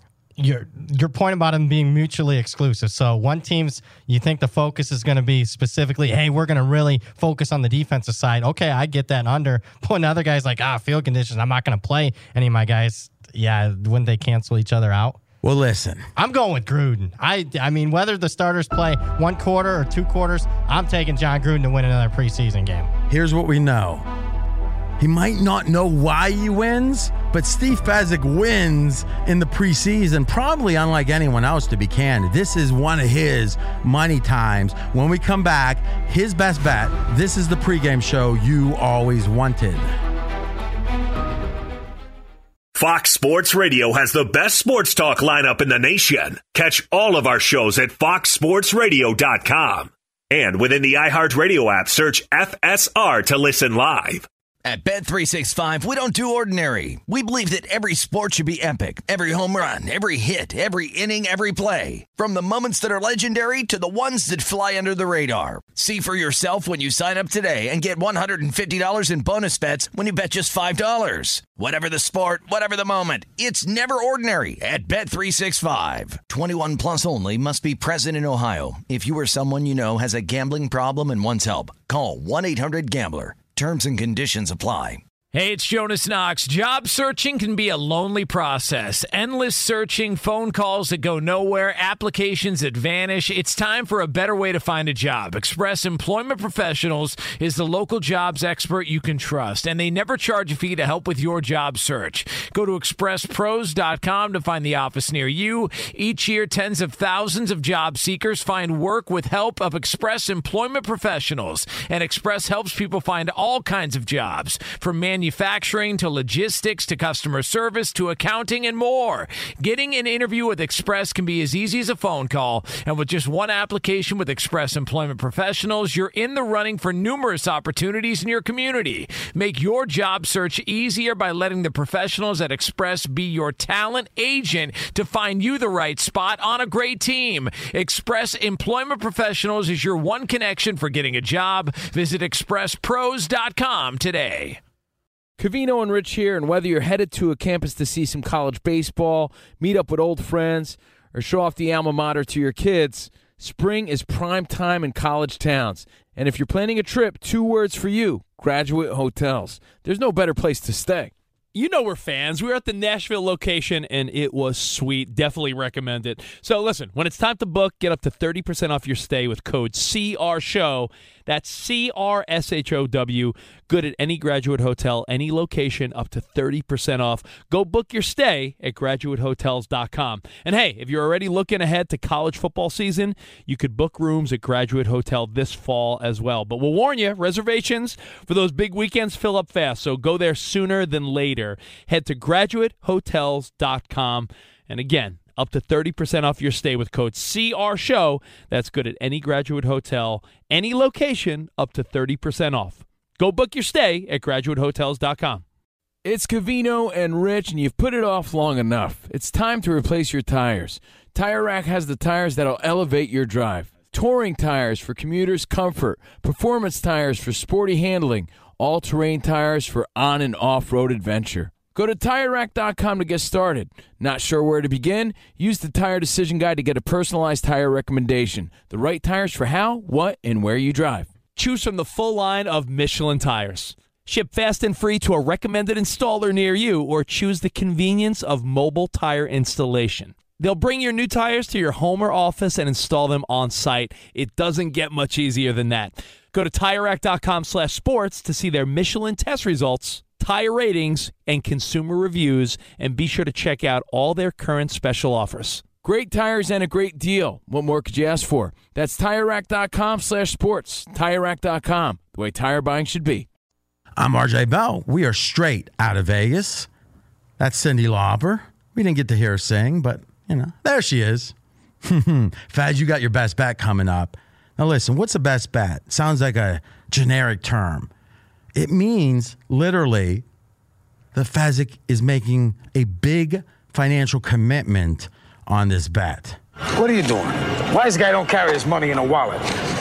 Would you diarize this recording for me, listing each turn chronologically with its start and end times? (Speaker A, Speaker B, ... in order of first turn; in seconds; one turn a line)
Speaker A: 0.4-15.2
Speaker B: 15.4-16.1
Speaker A: 16.2-22.9
Speaker B: 23.1-24.1
Speaker B: 25.0-39.9
Speaker C: 42.7-54.3
Speaker D: 54.6-85.0
Speaker E: 85.3-144.6
Speaker F: 145.4-161.1
Speaker G: 161.5-205.4
Speaker F: 206.0-231.2
Speaker G: 231.3-255.7
Speaker F: 255.8-263.3
Speaker B: 264.0-266.7
Speaker B: 267.4-277.9
Speaker B: 278.5-280.2
Speaker B: 281.1-286.4
Speaker H: 286.8-289.4